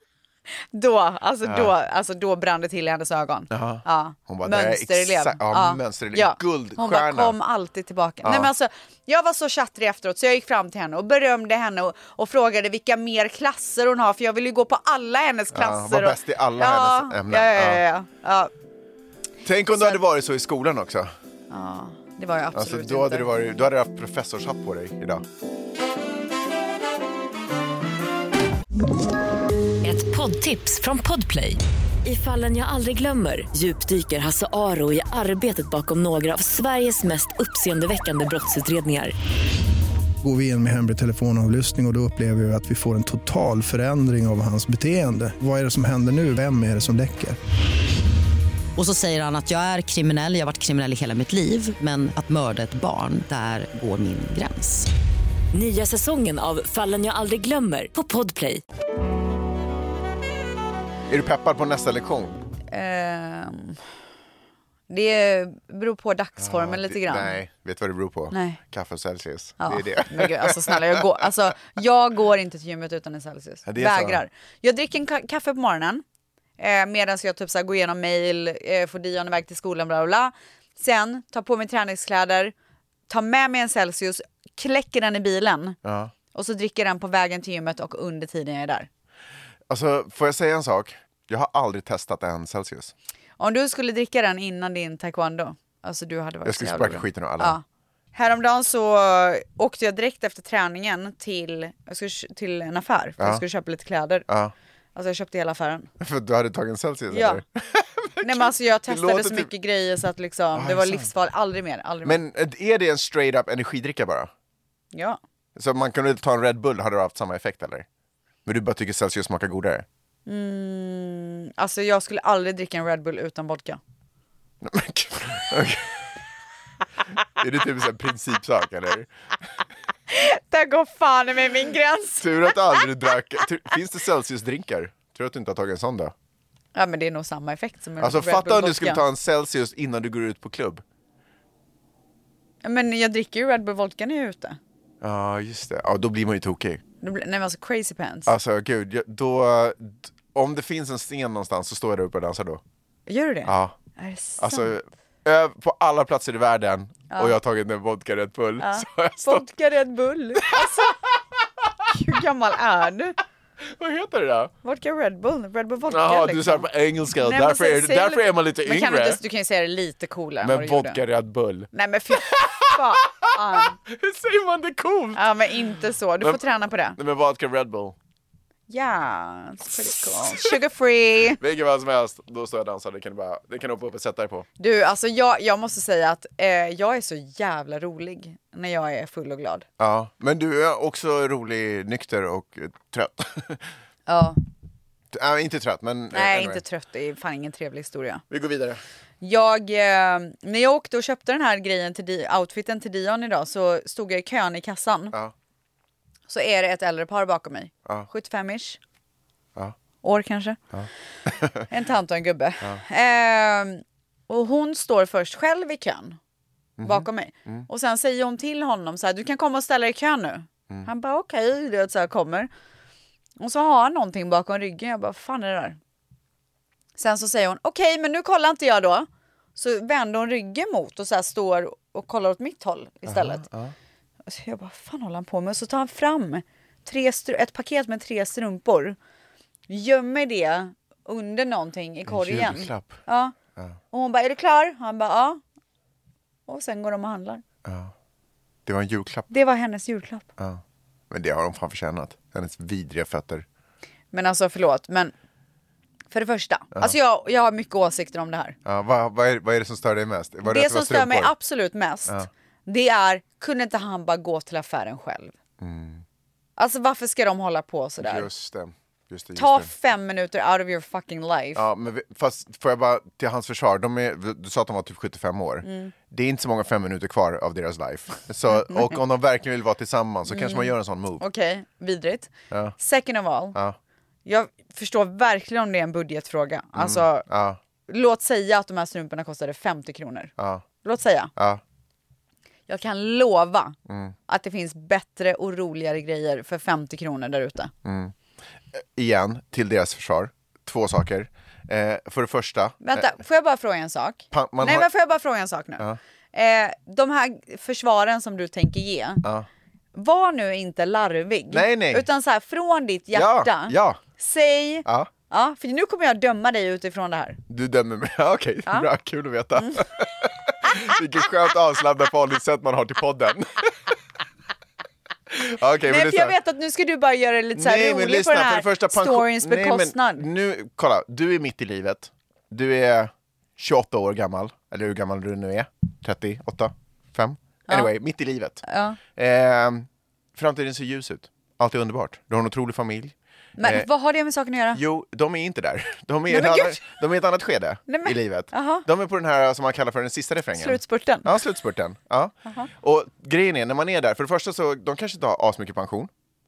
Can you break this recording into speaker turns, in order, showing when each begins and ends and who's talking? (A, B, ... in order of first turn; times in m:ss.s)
0:00.7-0:18.5 A
0:01.4-0:01.7 B
0:03.5-0:07.4 B
0:08.2-0:08.5 B
0:15.5-0:17.8 B
0:19.4-0:21.1 B
0:19.8-0:20.0 A
0:21.5-0:23.3 A
0:22.5-0:25.2 B
0:29.8-0:39.1 C
0:40.2-0:47.4 D
0:48.8-0:54.9 E
0:55.5-0:58.6 C
1:01.1-1:02.4 B
1:02.7-1:03.8 A
1:04.9-1:07.4 A
1:06.4-1:11.0 B
1:08.3-1:08.6 A
1:09.6-1:16.0 A
1:13.7-1:14.2 B
1:16.6-1:22.5 A
1:23.1-1:25.8 A
1:25.8-1:26.1 B
1:26.3-1:28.9 A
1:29.7-1:32.9 B
1:33.4-1:37.6 A
1:36.4-1:37.6 B
1:38.1-1:44.3 A
1:44.3-1:44.5 B
1:45.0-1:45.9 A
1:46.0-1:49.5 B
1:47.1-1:47.4 A
1:48.2-1:52.2 A
1:50.6-1:51.1 B
1:52.0-1:54.3 B
1:54.9-1:55.2 A
1:55.6-1:57.9 B
1:58.5-1:59.9 B
2:00.3-2:03.8 A
2:04.6-2:05.9 B
2:07.4-2:09.1 B
2:10.1-2:12.9 A
2:12.2-2:16.1 B
2:16.8-2:19.0 A
2:18.0-2:20.8 B
2:22.6-2:24.6 A
2:25.0-2:26.8 B
2:27.0-2:28.3 A
2:28.3-2:32.6 B
2:33.1-2:34.7 A
2:33.5-2:33.8 B
2:34.4-2:39.4 B
2:37.1-2:37.4 A
2:38.6-2:41.0 A
2:41.9-2:43.2 A
2:43.7-2:44.5 B
2:44.6-2:51.0 A
2:45.9-2:49.2 B
2:50.4-2:55.2 B
2:51.7-2:53.8 A
2:55.2-2:57.0 A
2:57.0-2:58.0 B
2:58.7-3:01.4 A
3:01.4-3:04.5 B
3:04.6-3:09.6 A
3:09.8-3:13.7 B
3:14.1-3:14.4 A
3:15.1-3:16.6 B
3:16.1-3:18.2 A
3:18.3-3:18.8 B
3:19.2-3:25.1 A
3:26.3-3:28.8 A
3:30.0-3:30.6 A
3:30.7-3:31.7 B
3:31.7-3:36.2 A
3:36.8-3:37.7 B
3:36.8-3:42.5 A
3:43.4-3:45.8 A
3:47.0-3:53.4 A
3:53.1-3:53.7 B
3:54.3-3:59.0 A
3:59.7-4:03.4 A
4:02.1-4:03.0 B
4:03.9-4:05.4 A
4:06.5-4:07.4 A
4:07.6-4:07.9 B
4:08.7-4:09.3 B
4:09.3-4:10.3 A
4:10.4-4:13.4 B
4:14.1-4:15.1 A
4:16.1-4:18.6 A
4:18.6-4:21.3 B
4:20.5-4:25.3 A
4:25.6-4:26.0 B
4:26.6-4:28.3 A
4:28.0-4:29.7 B
4:29.4-4:31.6 A
4:31.6-4:41.2 B
4:35.6-4:35.9 A
4:38.6-4:38.9 A
4:40.3-4:43.6 A
4:44.3-4:47.3 A
4:46.8-4:47.6 B
4:47.9-4:51.3 A
4:50.4-4:50.6 B
4:51.4-4:51.6 B
4:52.7-4:53.8 A
4:53.9-4:54.1 B
4:54.3-4:57.7 A
4:57.8-4:58.1 B
4:58.7-5:03.1 B
5:02.8-5:09.2 A
5:04.3-5:04.9 B
5:10.0-5:17.4 A
5:11.5-5:12.0 B
5:13.1-5:14.0 B
5:17.5-5:23.7 B
5:25.3-5:26.4 B
5:25.9-5:30.3 A
5:27.6-5:38.6 B
5:38.6-5:39.0 A
5:39.2-5:43.9 B
5:43.6-5:44.8 A
5:44.7-5:56.1 B
5:46.3-5:46.9 A
5:47.9-5:48.9 A
5:50.6-5:51.3 A